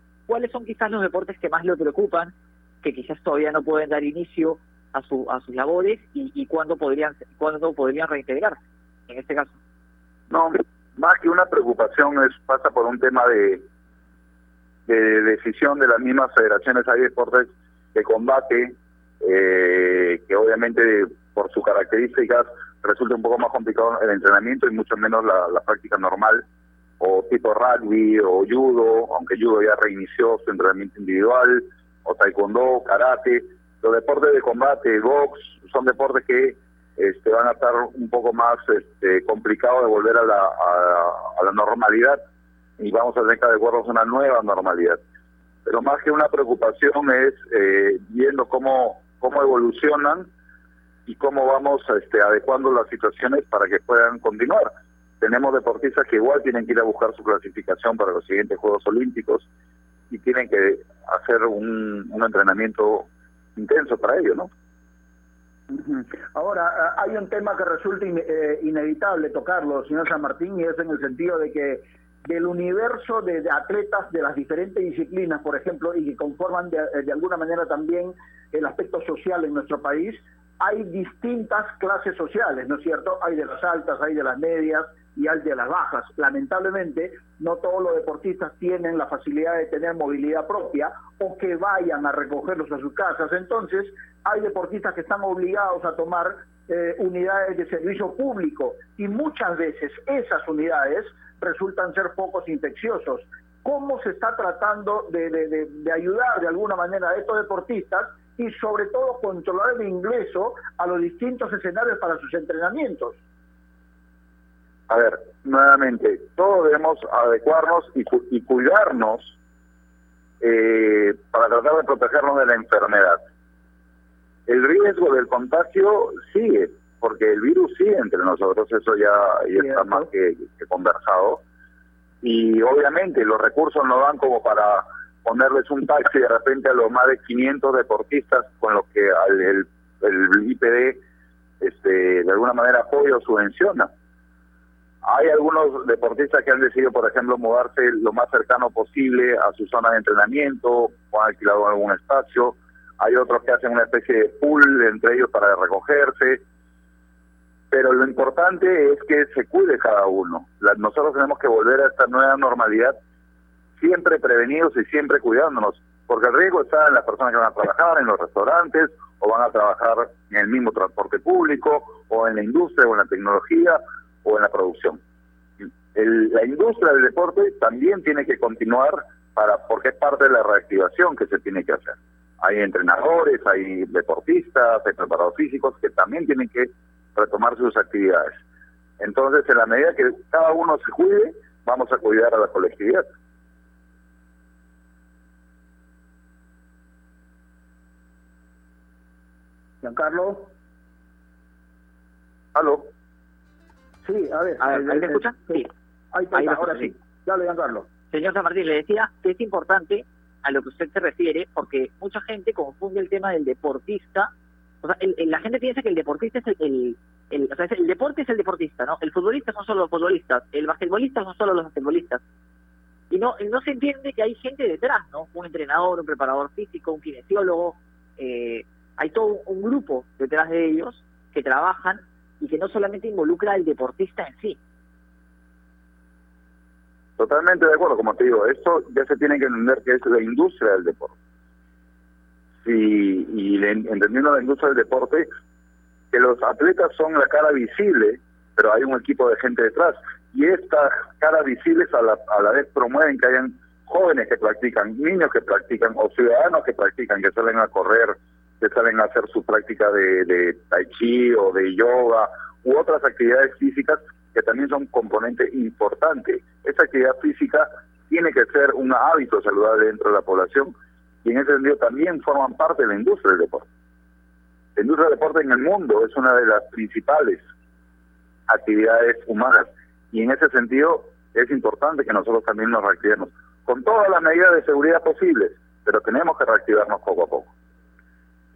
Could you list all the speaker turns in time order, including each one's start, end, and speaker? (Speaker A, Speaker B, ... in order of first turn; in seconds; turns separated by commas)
Speaker A: 0.3-9.5, Speaker B: 10.3-13.6, Speaker B: 14.9-26.4, Speaker B: 27.0-42.2, Speaker B: 42.8-45.0, Speaker B: 45.7-50.3, Speaker B: 51.1-59.5, Speaker B: 60.1-64.5, Speaker C: 65.7-113.2, Speaker B: 114.9-119.3, Speaker B: 120.4-123.2, Speaker B: 124.5-131.4, Speaker C: 129.6-130.1, Speaker B: 132.2-141.0, Speaker B: 141.6-143.9, Speaker B: 145.0-156.4, Speaker B: 157.7-162.9, Speaker B: 163.8-175.0, Speaker B: 175.9-188.4, Speaker B: 189.0-193.1, Speaker C: 199.8-200.5, Speaker B: 202.6-202.9, Speaker C: 204.0-207.9, Speaker A: 204.6-205.7, Speaker A: 206.3-206.9, Speaker A: 208.1-214.3, Speaker A: 214.8-222.2, Speaker A: 223.1-234.6, Speaker B: 237.2-241.1, Speaker B: 242.6-245.3, Speaker B: 246.1-270.7, Speaker B: 271.2-273.7, Speaker B: 274.8-277.4, Speaker B: 278.5-287.5